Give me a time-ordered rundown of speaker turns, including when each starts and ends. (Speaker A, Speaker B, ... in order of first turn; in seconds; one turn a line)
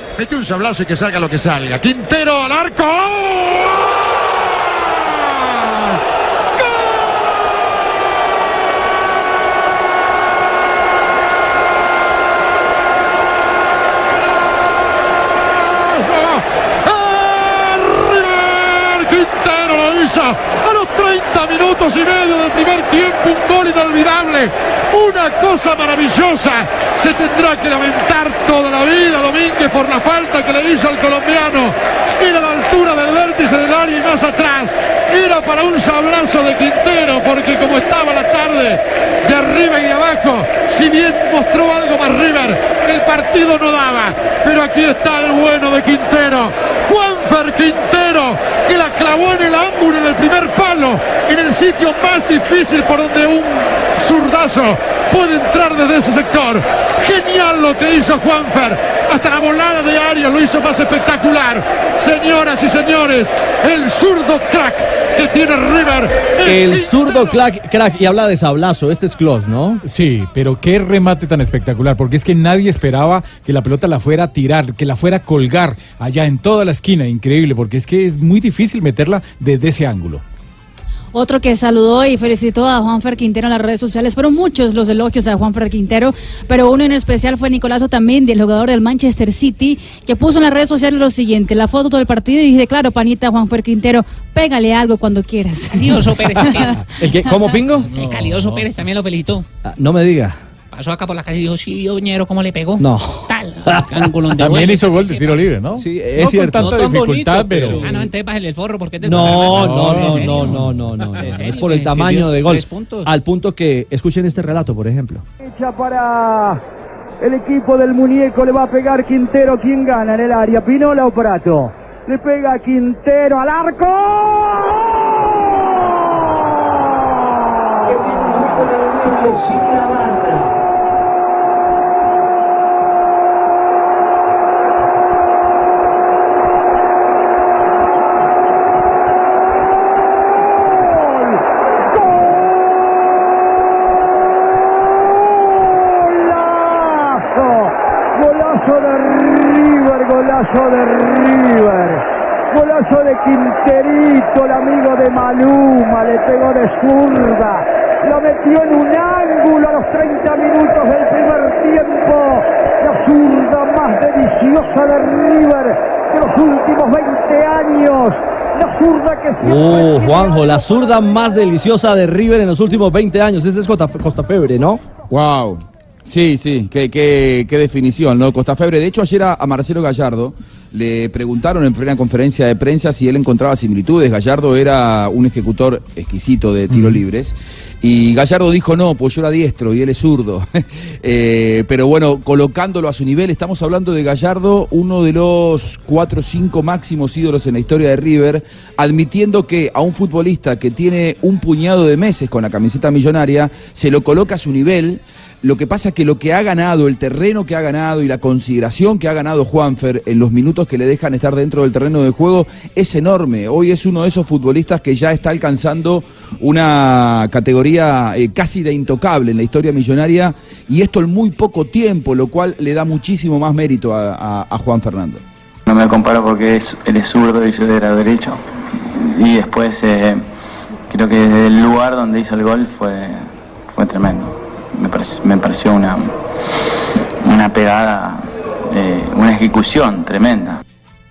Speaker A: 0.2-3.8
Speaker A: 15.8-67.4
Speaker B: 66.4-69.8
Speaker C: 69.8-80.2
Speaker D: 81.1-96.7
Speaker E: 95.8-96.8
Speaker B: 97.0-98.3
Speaker E: 97.9-99.4
Speaker B: 99.6-100.4
Speaker E: 100.7-105.4
Speaker B: 102.8-104.1
Speaker C: 104.4-107.9
Speaker B: 105.8-107.9
Speaker E: 107.8-113.1
Speaker B: 109.0-115.2
Speaker C: 109.4-110.7
Speaker F: 115.4-116.6
Speaker F: 117.2-124.8
Speaker F: 145.7-170.6
Speaker B: 169.4-174.8
Speaker G: 175.1-225.2
Speaker H: 225.7-230.2
Speaker H: 230.9-236.1
Speaker H: 237.2-240.6